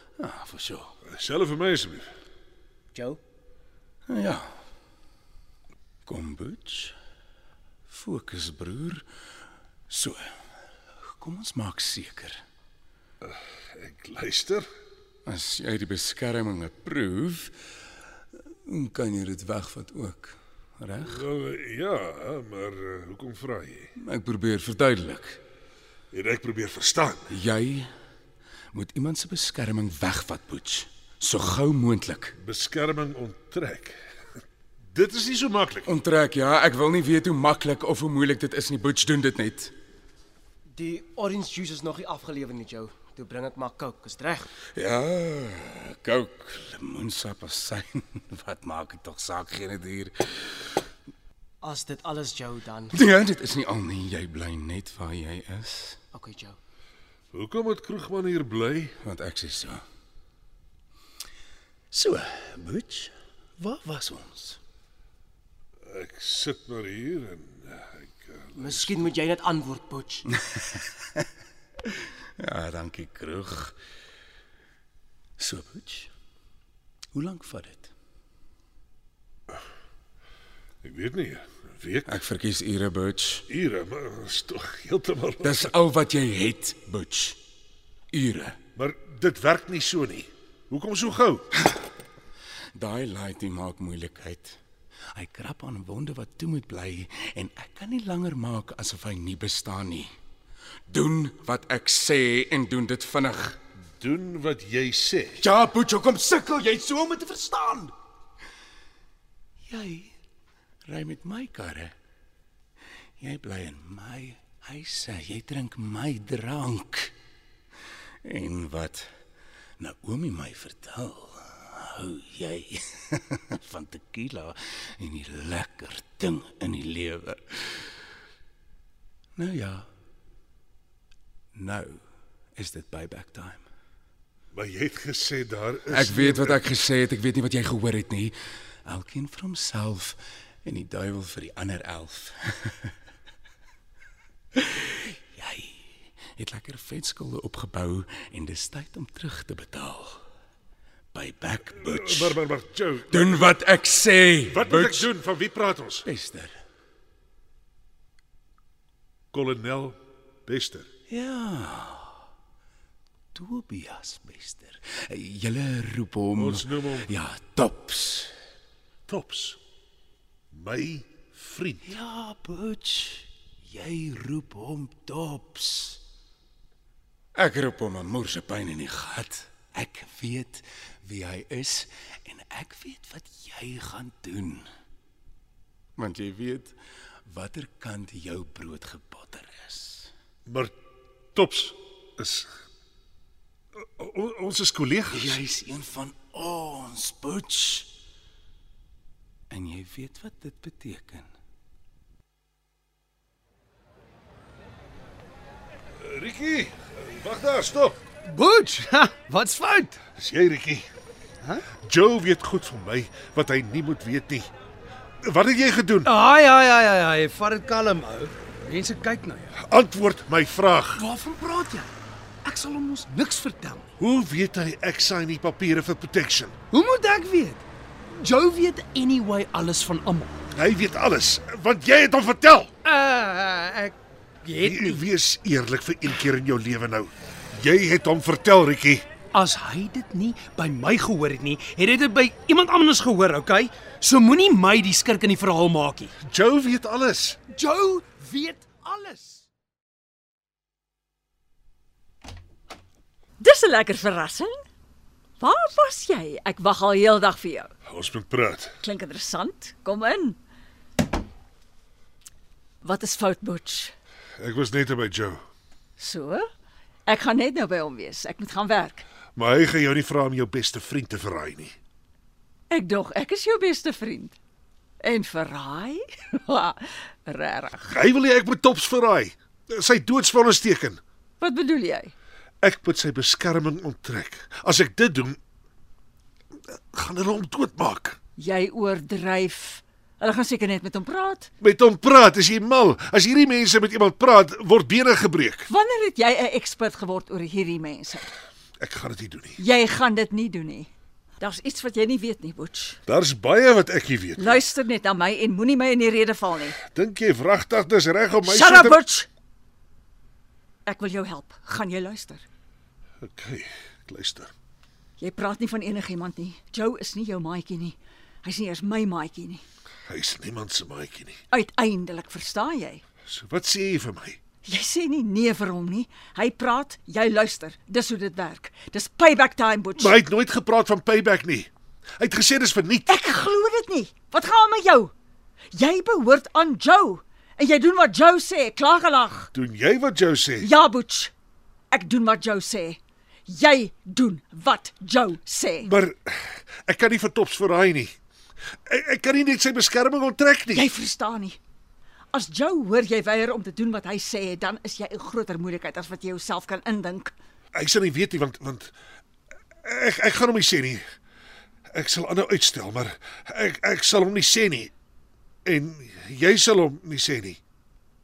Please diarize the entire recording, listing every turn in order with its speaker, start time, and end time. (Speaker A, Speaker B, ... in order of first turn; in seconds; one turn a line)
Speaker A: 0.2-0.9
Speaker B: 1.1-2.1
Speaker C: 2.9-3.2
Speaker A: 4.1-4.5
Speaker A: 6.0-7.0
Speaker A: 7.9-9.1
Speaker A: 9.9-10.3
Speaker A: 11.0-12.4
Speaker B: 13.2-14.7
Speaker A: 15.2-17.8
Speaker A: 18.6-21.2
Speaker B: 21.0-23.9
Speaker A: 24.0-25.4
Speaker B: 26.1-27.3
Speaker A: 27.3-27.9
Speaker A: 28.7-32.4
Speaker B: 32.4-34.0
Speaker B: 34.9-35.9
Speaker A: 35.8-39.7
Speaker C: 40.7-44.5
Speaker A: 44.7-50.8
Speaker C: 51.6-53.0
Speaker A: 52.9-56.0
Speaker C: 56.1-56.6
Speaker B: 57.3-59.0
Speaker A: 59.0-59.8
Speaker A: 61.9-64.6
Speaker B: 65.8-69.1
Speaker C: 68.5-70.2
Speaker A: 70.3-71.2
Speaker A: 71.8-73.8
Speaker A: 75.4-76.1
Speaker A: 77.1-77.9
Speaker B: 80.8-82.1
Speaker A: 82.0-83.4
Speaker B: 83.5-85.7
Speaker A: 85.4-87.4
Speaker A: 88.1-88.6
Speaker B: 88.8-91.5
Speaker A: 92.7-94.6
Speaker A: 95.1-100.1
Speaker A: 100.9-103.6
Speaker B: 104.0-105.4
Speaker A: 105.4-107.9
Speaker A: 109.7-110.1
Speaker A: 110.9-111.9
Speaker A: 113.2-117.1
Speaker A: 118.2-119.1
Speaker A: 119.8-127.9
Speaker A: 129.3-129.9
Speaker A: 131.5-132.0
Speaker A: 132.6-133.6
Speaker B: 134.5-136.6
Speaker A: 135.9-142.9
Speaker A: 144.5-150.2
Speaker A: 151.1-152.4
Speaker B: 151.8-153.6
Speaker A: 153.1-155.1
Speaker B: 154.5-156.0
Speaker A: 156.0-156.6
Speaker B: 159.3-160.9
Speaker A: 161.1-162.2
Speaker A: 163.3-168.3
Speaker B: 166.3-167.1
Speaker B: 169.1-169.6
Speaker B: 170.5-171.8
Speaker A: 171.8-176.0
Speaker A: 177.3-184.7
Speaker A: 186.0-190.1
Speaker B: 190.5-190.7
Speaker B: 191.3-192.5
Speaker B: 193.8-195.4
Speaker A: 195.1-197.9
Speaker A: 199.5-201.3
Speaker B: 206.0-208.0
Speaker D: 208.2-210.0
Speaker B: 210.2-210.9
Speaker B: 211.8-214.5
Speaker B: 215.2-216.1
Speaker D: 216.0-219.5
Speaker B: 219.6-221.0
Speaker D: 220.9-221.9
Speaker D: 222.4-223.9
Speaker B: 224.0-226.6
Speaker D: 226.7-227.6
Speaker D: 228.2-230.4
Speaker B: 230.5-232.7
Speaker D: 232.8-235.0
Speaker B: 234.6-239.1
Speaker D: 239.3-246.1
Speaker B: 246.2-247.4
Speaker D: 247.5-249.4
Speaker E: 253.4-254.6
Speaker E: 255.4-257.7
Speaker B: 257.9-258.8
Speaker E: 258.8-260.4
Speaker E: 262.8-263.9
Speaker B: 264.4-265.4
Speaker E: 266.0-266.5
Speaker E: 267.1-269.1
Speaker B: 269.4-271.7
Speaker E: 272.7-274.4
Speaker E: 275.0-277.9
Speaker B: 277.9-281.0
Speaker E: 281.4-282.1
Speaker B: 282.6-285.4
Speaker B: 286.9-288.2
Speaker E: 288.4-291.5
Speaker B: 291.6-295.7
Speaker E: 295.7-298.3
Speaker B: 298.8-299.6
Speaker E: 299.6-303.0
Speaker B: 303.1-304.6
Speaker E: 304.4-306.8
Speaker B: 306.9-309.0
Speaker E: 308.4-309.3
Speaker E: 310.9-312.4
Speaker B: 313.2-314.5
Speaker E: 315.2-319.6
Speaker B: 320.1-321.4
Speaker E: 321.5-323.0
Speaker B: 323.3-324.4
Speaker E: 324.6-330.1
Speaker B: 329.9-333.1
Speaker E: 333.1-335.1
Speaker E: 335.7-339.5
Speaker B: 339.5-340.7
Speaker E: 340.6-341.3
Speaker E: 341.9-345.9
Speaker B: 345.8-348.1
Speaker B: 348.9-350.9
Speaker E: 350.7-351.6
Speaker E: 352.3-357.3
Speaker B: 357.7-358.9
Speaker B: 359.8-361.0
Speaker B: 361.9-364.9
Speaker B: 365.6-367.6